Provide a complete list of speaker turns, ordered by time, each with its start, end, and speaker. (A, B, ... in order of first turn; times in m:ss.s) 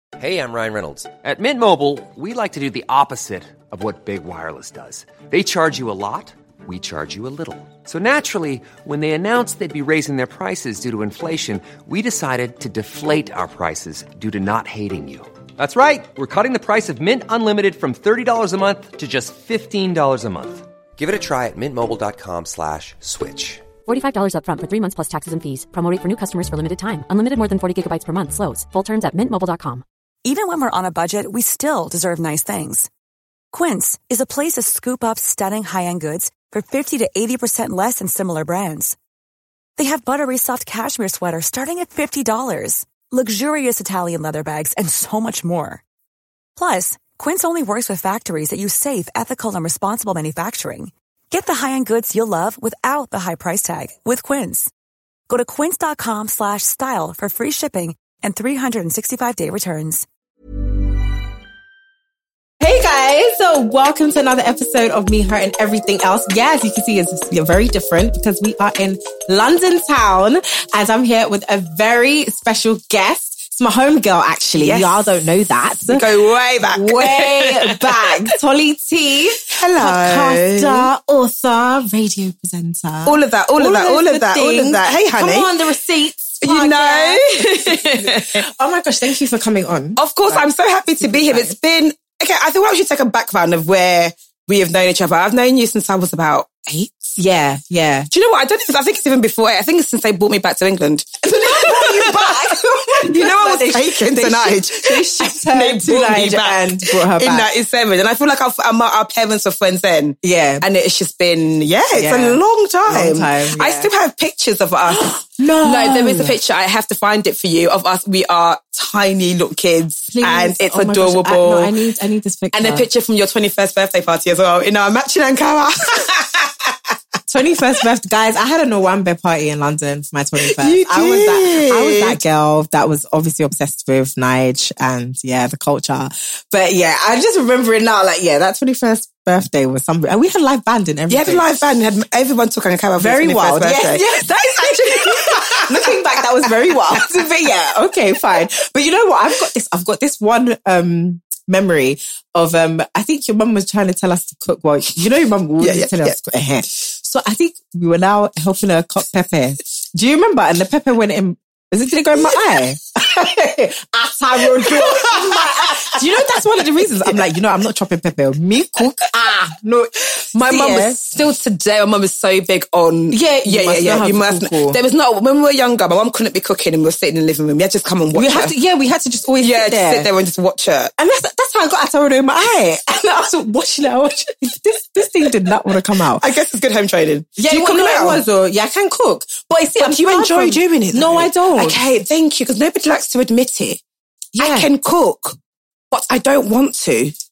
0:00.2-0:23.6 A
0:23.9-0:29.8 B
0:30.2-0:32.9 C
0:33.5-0:39.0 C
0:39.8-0:45.8 C
0:46.6-0:54.7 C
0:55.3-1:00.1 C
1:02.6-1:16.1 D
1:14.6-1:15.1 E
1:15.9-1:18.2 E
1:16.7-1:31.6 D
1:19.5-1:20.9 E
1:23.1-1:25.5 E
1:26.4-1:28.4 E
1:30.0-1:37.2 E
1:37.2-1:38.1 D
1:38.1-2:01.7 E
1:41.2-1:47.5 D
1:50.2-1:50.7 D
1:52.0-1:53.9 D
1:54.9-1:56.4 D
2:00.1-2:02.9 D
2:02.5-2:06.7 E
2:07.3-2:21.4 D
2:10.5-2:12.2 E
2:21.1-2:27.2 E
2:23.0-2:51.0 D
2:35.6-2:36.2 E
2:44.5-2:46.4 E
2:50.3-2:58.5 E
2:53.1-2:54.8 D
2:58.1-3:00.1 D
2:59.4-3:00.9 E
3:01.0-3:06.2 D
3:06.2-3:08.2 E
3:07.4-3:11.8 D
3:09.8-3:13.8 E
3:14.3-3:14.7 D
3:14.4-3:15.4 E
3:15.9-3:17.1 E